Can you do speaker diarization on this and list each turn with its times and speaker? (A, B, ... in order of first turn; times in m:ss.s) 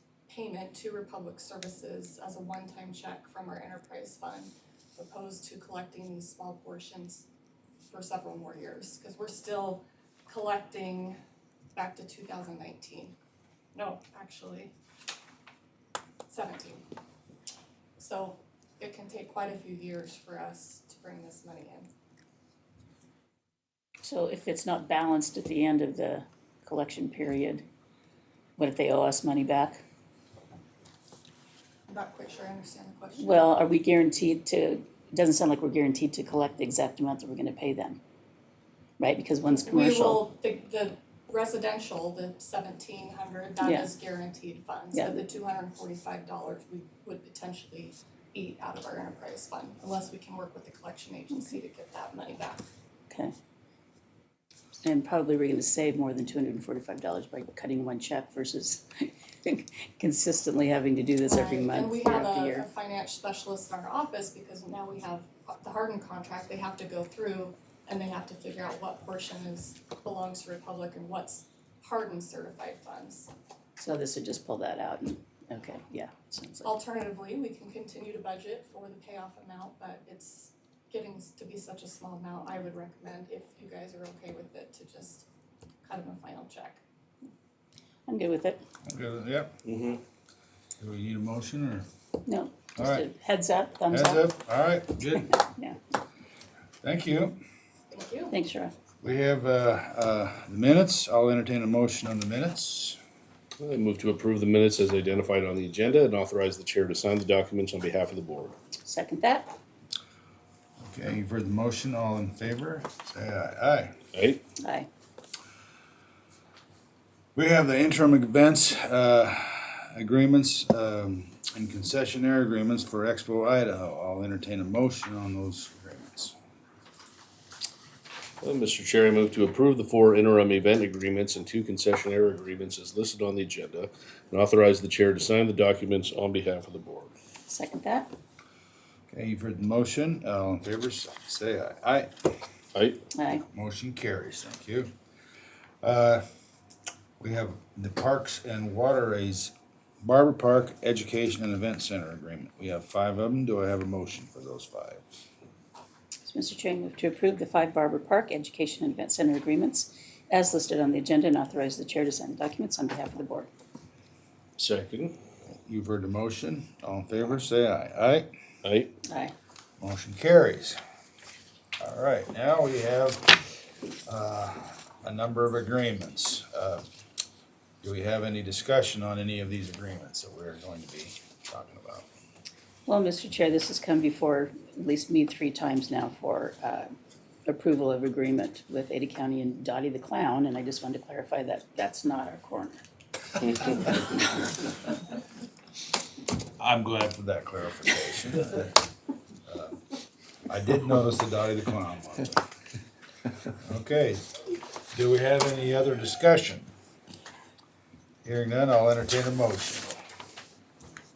0:00.3-0:07.3 A
0:07.9-0:11.2 A
0:11.7-0:13.2 A
0:13.7-0:14.7 A
0:16.3-0:16.8 A
0:18.0-0:21.9 A
0:24.0-0:27.6 B
0:28.6-0:29.8 B
0:31.9-0:33.4 A
0:33.2-0:38.0 B
0:39.0-0:40.2 B
0:39.6-0:52.6 A
0:43.6-0:43.9 B
0:44.9-0:45.2 B
0:54.8-1:02.7 B
1:01.2-1:13.3 A
1:13.8-1:16.7 B
1:16.6-1:25.3 A
1:25.8-1:26.8 A
1:28.1-1:28.6 B
1:28.8-1:29.5 C
1:29.7-1:30.0 D
1:30.8-1:31.8 C
1:32.2-1:34.2 B
1:32.8-1:33.0 C
1:33.9-1:35.4 C
1:35.4-1:35.8 B
1:36.8-1:37.4 C
1:37.9-1:38.3 A
1:38.3-1:38.7 B
1:39.0-1:43.0 C
1:43.6-1:48.6 D
1:48.8-1:49.5 B
1:50.8-1:53.9 C
1:54.1-1:54.4 D
1:54.6-1:54.9 B
1:57.4-2:06.3 C
2:08.4-2:17.1 D
2:17.5-2:18.1 B
2:19.1-2:22.1 C
2:22.8-2:23.0 D
2:23.1-2:23.4 B
2:23.5-2:24.9 C
2:25.8-2:26.2 C
2:27.2-2:35.0 C
2:36.2-2:43.5 B
2:44.6-2:45.1 D
2:45.5-2:48.3 C
2:48.6-2:48.9 D
2:49.1-2:49.3 B
2:49.8-2:50.8 C
2:51.8-2:53.4 C
2:54.1-2:56.8 C
2:57.8-3:02.1 C
3:02.9-3:06.9 B
3:07.4-3:12.8 B
3:16.6-3:18.8 C
3:19.4-3:19.8 C
3:20.5-3:22.4 C
3:23.6-3:24.2 C
3:24.9-3:26.7 C
3:28.2-3:30.0 C